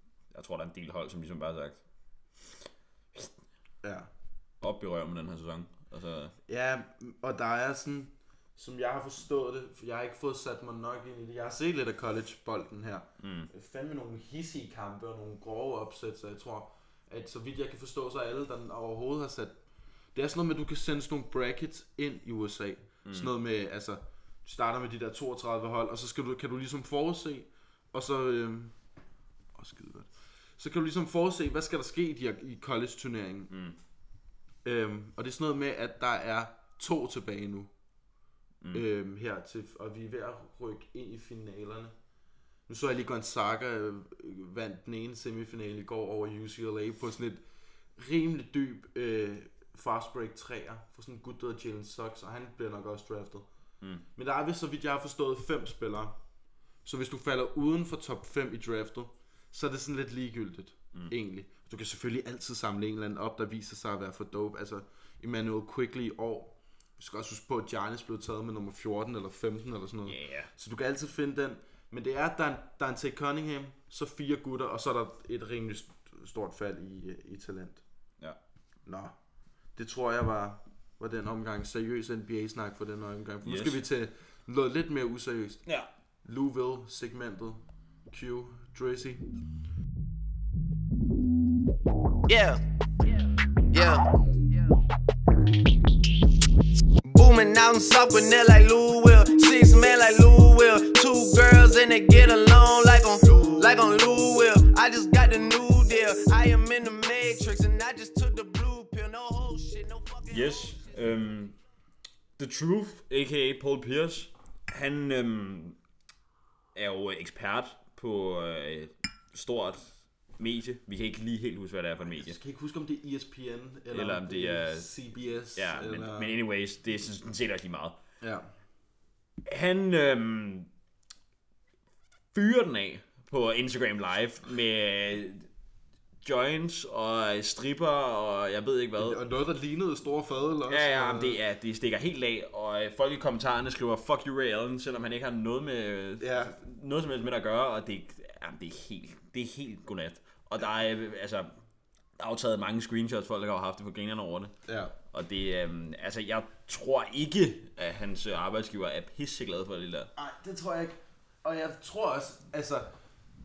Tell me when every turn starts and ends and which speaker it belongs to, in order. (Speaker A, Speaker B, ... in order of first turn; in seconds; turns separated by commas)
Speaker A: 0.3-1.8, Speaker B: 3.8-4.1, Speaker A: 4.6-6.3, Speaker B: 6.5-19.6, Speaker A: 13.2-13.5, Speaker B: 20.1-28.7, Speaker A: 23.1-23.3, Speaker B: 29.5-33.5, Speaker A: 33.5-33.8, Speaker B: 34.6-37.7, Speaker B: 38.7-41.9, Speaker B: 42.7-47.4, Speaker B: 48.0-53.5, Speaker B: 54.1-56.2, Speaker B: 56.8-77.8, Speaker A: 70.0-70.5, Speaker B: 78.8-79.1, Speaker B: 79.8-85.6, Speaker A: 83.4-83.8, Speaker B: 86.2-89.2, Speaker C: 92.3-92.6, Speaker C: 93.7-94.0, Speaker C: 97.1-110.3, Speaker B: 103.3-103.6, Speaker A: 110.3-111.6, Speaker A: 112.4-115.8, Speaker A: 116.7-122.4, Speaker B: 122.0-126.4, Speaker A: 123.9-124.9, Speaker A: 125.5-128.0, Speaker B: 128.2-128.5, Speaker A: 129.4-130.7, Speaker A: 132.3-135.5, Speaker A: 136.2-139.2, Speaker B: 139.0-141.4, Speaker A: 140.7-151.5, Speaker B: 146.2-146.5, Speaker A: 152.2-154.5, Speaker B: 154.7-154.9, Speaker A: 155.1-160.1, Speaker B: 160.2-162.9